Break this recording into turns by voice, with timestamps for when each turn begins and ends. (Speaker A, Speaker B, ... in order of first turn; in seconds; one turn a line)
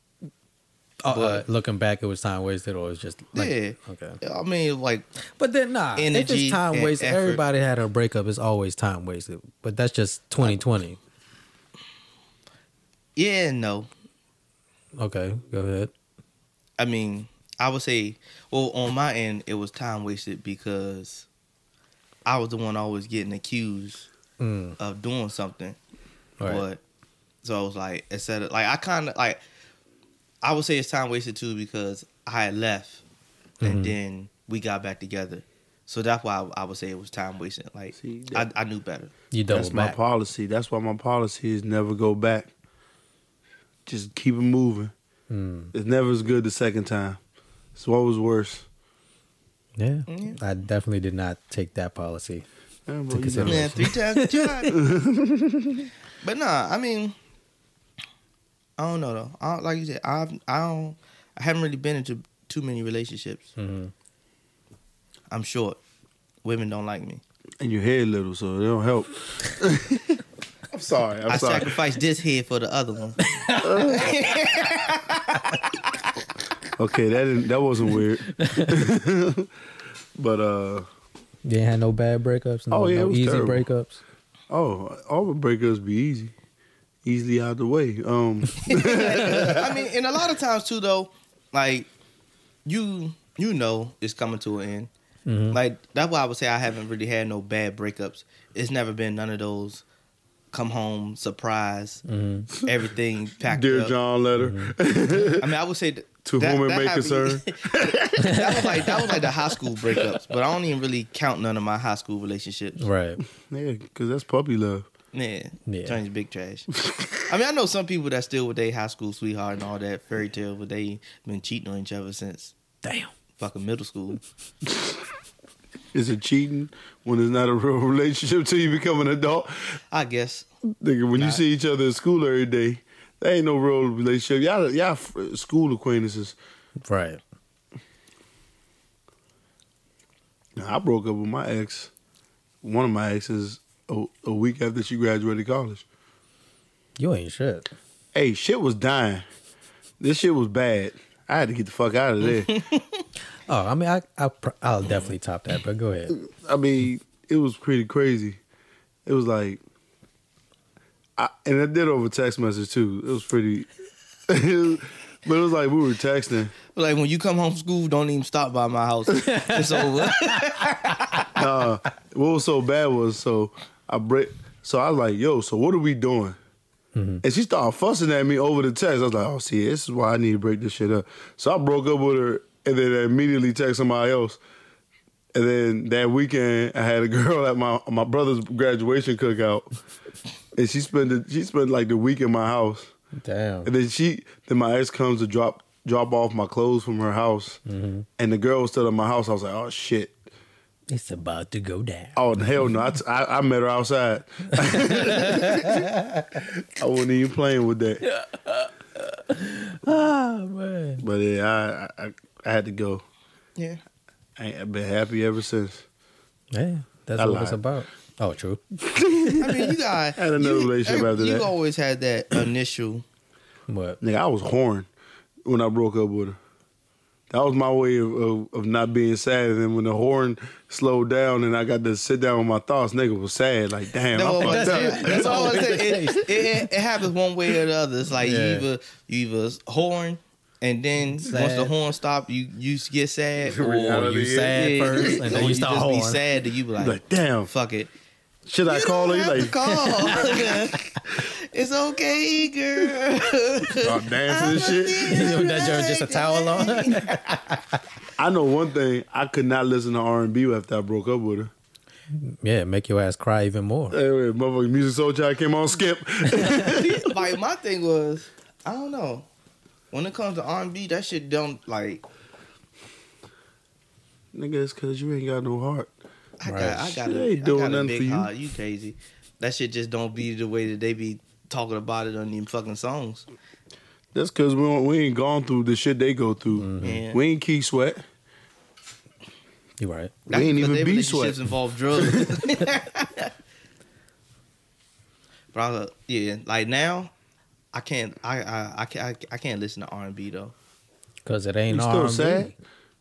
Speaker A: 1.0-4.2
Speaker B: 1.1-1.4
Speaker B: 3.3-5.1
Speaker A: 5.2-11.0
Speaker B: 6.0-7.4
Speaker B: 13.2-13.9
Speaker A: 15.0-15.9
Speaker B: 16.8-21.3
Speaker B: 22.3-24.1
Speaker A: 24.4-24.8
Speaker B: 24.8-25.8
Speaker B: 26.4-26.8
Speaker B: 27.4-29.4
Speaker B: 30.4-33.0
Speaker B: 33.6-39.1
Speaker A: 33.6-34.0
Speaker C: 38.0-38.5
Speaker A: 39.3-40.0
Speaker C: 39.5-42.5
Speaker C: 43.9-44.9
Speaker A: 45.3-45.7
Speaker C: 45.7-47.2
Speaker C: 47.8-48.7
Speaker A: 49.8-52.5
Speaker B: 50.1-50.4
Speaker C: 52.9-53.9
Speaker A: 53.1-54.7
Speaker B: 53.4-54.8
Speaker C: 54.7-55.9
Speaker B: 56.2-57.1
Speaker B: 58.8-63.5
Speaker A: 63.6-63.9
Speaker B: 65.3-65.8
Speaker B: 66.4-67.2
Speaker C: 67.6-71.8
Speaker B: 71.3-73.2
Speaker A: 73.3-73.8
Speaker C: 73.6-74.2
Speaker B: 73.9-75.4
Speaker C: 76.8-79.5
Speaker A: 78.4-78.8
Speaker C: 80.2-80.9
Speaker A: 81.5-84.0
Speaker C: 82.7-83.7
Speaker C: 84.5-86.3
Speaker C: 87.0-89.7
Speaker B: 88.7-91.9
Speaker A: 88.9-89.5
Speaker B: 92.7-94.9
Speaker A: 95.3-95.6
Speaker B: 95.5-99.8
Speaker B: 100.5-102.0
Speaker A: 102.1-102.5
Speaker B: 102.6-103.9
Speaker C: 103.5-105.5
Speaker A: 104.4-104.7
Speaker B: 105.4-112.8
Speaker C: 106.2-108.4
Speaker A: 108.2-109.3
Speaker A: 112.8-113.2
Speaker C: 113.5-114.9
Speaker B: 115.1-122.5
Speaker A: 115.7-116.0
Speaker A: 122.8-123.1
Speaker B: 123.4-124.2
Speaker C: 125.9-129.8
Speaker B: 129.9-130.5
Speaker C: 130.8-136.4
Speaker B: 131.1-131.4
Speaker A: 136.8-137.2
Speaker C: 140.6-141.9
Speaker C: 142.6-145.8
Speaker A: 147.0-147.7
Speaker C: 148.1-149.2
Speaker C: 150.0-152.6
Speaker B: 152.3-153.0
Speaker A: 153.5-156.2
Speaker C: 156.2-158.4
Speaker C: 159.1-159.6
Speaker C: 161.2-163.7
Speaker C: 164.3-166.5
Speaker B: 166.7-171.3
Speaker A: 169.2-170.4
Speaker C: 171.3-176.4
Speaker A: 176.9-177.2
Speaker C: 177.2-184.4
Speaker C: 185.3-189.7
Speaker C: 190.6-192.9
Speaker A: 193.2-193.7
Speaker C: 193.7-197.6
Speaker A: 197.7-198.1
Speaker C: 198.2-200.2
Speaker A: 200.9-202.7
Speaker C: 202.2-205.9
Speaker A: 204.6-206.5
Speaker C: 206.6-208.0
Speaker A: 208.1-211.0
Speaker C: 211.0-213.0
Speaker C: 214.4-215.8
Speaker A: 216.5-218.6
Speaker C: 217.2-217.6
Speaker C: 218.8-219.6
Speaker B: 219.4-223.0
Speaker C: 220.2-221.5
Speaker A: 223.7-224.0
Speaker C: 224.0-224.9
Speaker C: 225.4-226.4
Speaker C: 227.3-236.1
Speaker B: 234.1-243.6
Speaker A: 234.4-236.4
Speaker A: 238.2-238.7
Speaker A: 241.2-241.7
Speaker C: 243.4-245.5
Speaker A: 243.6-246.2
Speaker B: 244.5-247.9
Speaker C: 246.8-247.5
Speaker C: 248.5-250.6
Speaker B: 248.7-257.2
Speaker C: 253.8-255.4
Speaker A: 255.1-257.8
Speaker C: 258.2-261.5
Speaker A: 262.1-264.0
Speaker C: 263.9-267.1
Speaker B: 266.6-269.3
Speaker B: 269.9-272.0
Speaker C: 274.3-275.9
Speaker B: 276.4-283.3
Speaker A: 276.4-277.0
Speaker C: 277.0-278.3
Speaker C: 284.1-288.0
Speaker A: 286.5-287.0
Speaker B: 286.8-287.2
Speaker A: 289.8-290.2
Speaker C: 290.3-291.4
Speaker B: 290.3-293.3
Speaker C: 292.0-292.4
Speaker B: 295.5-297.1
Speaker B: 297.7-300.5
Speaker A: 301.2-302.6
Speaker C: 301.7-302.5